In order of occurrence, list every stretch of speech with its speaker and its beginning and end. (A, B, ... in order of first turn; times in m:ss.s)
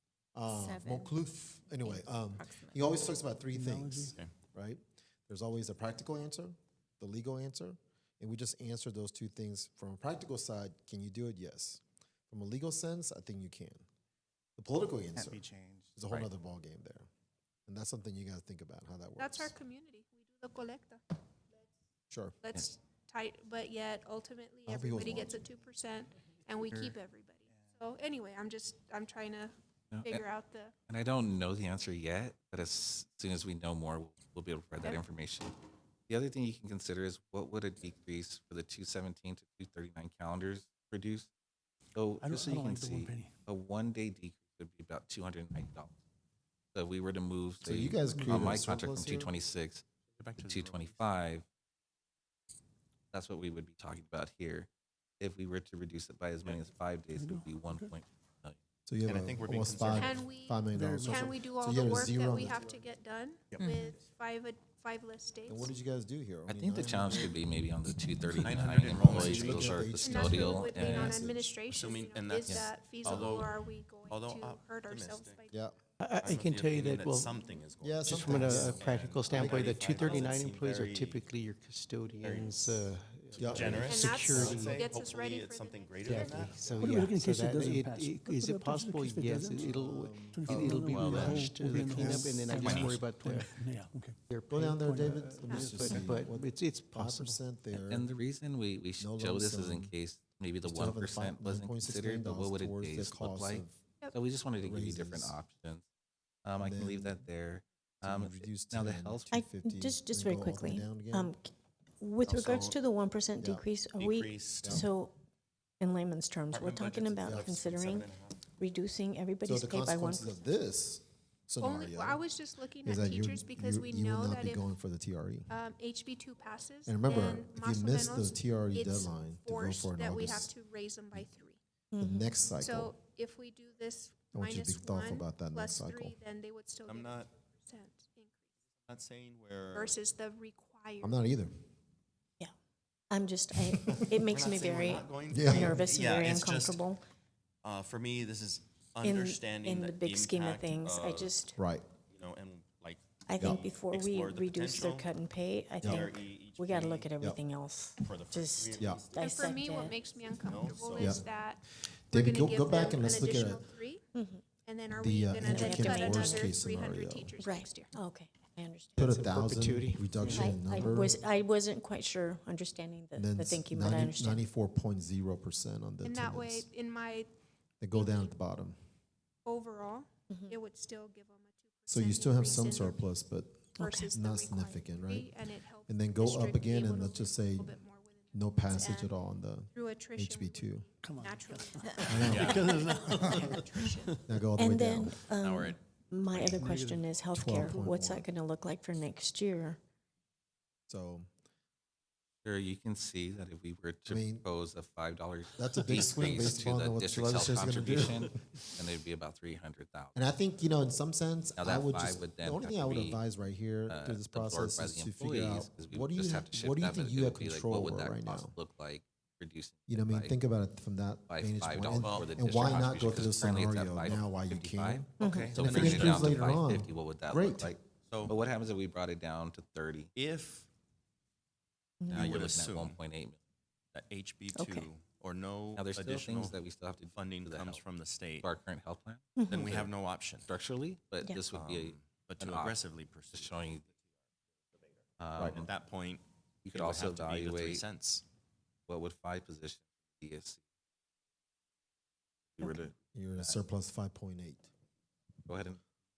0:00.3-0:13.8 A
0:03.5-0:04.2 B
0:14.6-0:17.1 A
0:15.2-0:16.3 C
0:17.7-0:19.5 A
0:19.2-0:21.0 D
0:22.1-0:22.4 A
0:22.4-0:30.7 D
0:24.7-0:25.4 A
0:29.9-0:30.2 C
0:30.9-0:35.5 C
0:36.1-0:41.3 C
0:41.9-0:45.9 C
0:42.2-0:43.3 B
0:46.7-0:49.8 C
0:47.6-0:49.3 A
0:48.0-0:48.6 B
0:50.2-0:51.0 E
0:50.4-0:51.4 C
0:53.1-0:54.7 C
0:55.2-0:58.6 C
0:57.1-0:58.0 B
0:58.9-1:02.6 A
0:59.0-1:00.3 E
0:59.9-1:05.7 D
1:00.7-1:01.3 B
1:05.5-1:07.4 A
1:06.5-1:11.2 C
1:08.4-1:09.8 E
1:08.9-1:11.5 A
1:10.0-1:15.7 D
1:11.7-1:15.4 E
1:12.4-1:12.7 C
1:13.1-1:13.4 A
1:15.5-1:15.8 A
1:16.0-1:17.3 F
1:16.2-1:21.3 E
1:17.8-1:20.0 A
1:18.0-1:24.9 F
1:22.2-1:26.7 E
1:23.4-1:23.9 A
1:23.8-1:26.9 D
1:26.0-1:33.5 F
1:26.7-1:29.7 B
1:29.4-1:32.3 A
1:30.3-1:36.4 B
1:30.8-1:31.3 E
1:32.6-1:33.0 E
1:34.3-1:35.1 F
1:34.5-1:38.1 A
1:35.5-1:35.7 D
1:35.7-1:37.4 F
1:37.7-1:45.8 C
1:39.0-1:39.9 A
1:40.6-1:43.8 A
1:44.6-1:45.4 A
1:46.4-1:49.3 C
1:46.6-1:47.2 A
1:48.0-1:51.3 A
1:49.3-1:51.5 G
1:52.0-1:55.1 G
1:52.2-1:52.8 E
1:53.4-1:53.6 A
1:54.0-1:54.8 E
1:55.8-2:00.4 G
1:56.5-1:58.4 E
1:57.2-1:57.6 A
1:59.4-2:02.2 A
2:01.6-2:04.6 D
2:02.8-2:05.6 A
2:05.5-2:11.6 D
2:06.8-2:10.5 A
2:11.9-2:12.3 G
2:12.0-2:12.9 A
2:12.6-2:18.4 D
2:14.3-2:16.2 A
2:16.9-2:17.3 E
2:18.8-2:20.0 E
2:19.7-2:21.2 D
2:21.0-2:21.5 A
2:23.1-2:27.0 G
2:24.1-2:26.8 E
2:25.3-2:25.8 A
2:27.6-2:31.4 E
2:29.0-2:31.6 G
2:31.6-2:31.8 A
2:32.1-2:35.1 E
2:33.2-2:40.0 G
2:35.8-2:36.1 A
2:35.8-2:37.1 E
2:38.0-2:39.3 E
2:39.2-2:44.0 D
2:40.4-2:41.2 E
2:41.0-2:41.2 A
2:42.1-2:43.6 A
2:44.1-2:44.4 G
2:44.6-2:47.9 D
2:44.9-2:47.3 A
2:45.4-2:46.5 G
2:47.4-2:49.1 G
2:49.0-2:51.2 A
2:49.0-2:50.5 F
2:50.2-2:54.4 G
2:53.2-2:56.6 A
2:56.0-2:57.3 D
2:57.8-2:58.8 A
2:57.9-2:58.4 D
2:59.4-3:03.1 D
3:01.9-3:05.3 A
3:03.8-3:09.2 D
3:03.8-3:04.1 G
3:05.9-3:07.8 A
3:08.3-3:10.9 A
3:09.7-3:14.2 D
3:11.0-3:13.4 B
3:12.0-3:12.7 A
3:12.0-3:13.4 E
3:14.2-3:15.2 A
3:14.6-3:19.8 G
3:15.4-3:15.8 E
3:16.4-3:17.7 B
3:17.3-3:18.3 A
3:20.9-3:21.3 A
3:22.4-3:30.2 C
3:24.0-3:24.5 A
3:25.6-3:28.3 A
3:30.1-3:38.6 A
3:31.6-3:33.2 C
3:33.9-3:40.4 C
3:39.9-3:47.8 A
3:41.3-3:50.1 C
3:42.0-3:42.4 E
3:45.2-3:45.7 G
3:45.4-3:46.2 E
3:48.1-3:48.3 E
3:50.1-3:50.7 E
3:52.0-3:52.4 G
3:52.1-3:53.4 C
3:52.1-3:53.0 E
3:53.9-3:56.6 E
3:54.5-3:54.9 G
3:55.7-3:57.8 C
3:57.1-3:58.5 E
3:58.4-4:03.8 C
3:59.4-3:59.8 G
3:59.5-4:00.5 E
4:01.5-4:03.9 E
4:05.2-4:05.7 C
4:05.4-4:05.6 A
4:05.4-4:08.2 E
4:06.6-4:07.9 C
4:08.9-4:10.6 C
4:12.6-4:13.6 C
4:13.1-4:14.7 A
4:15.4-4:15.8 C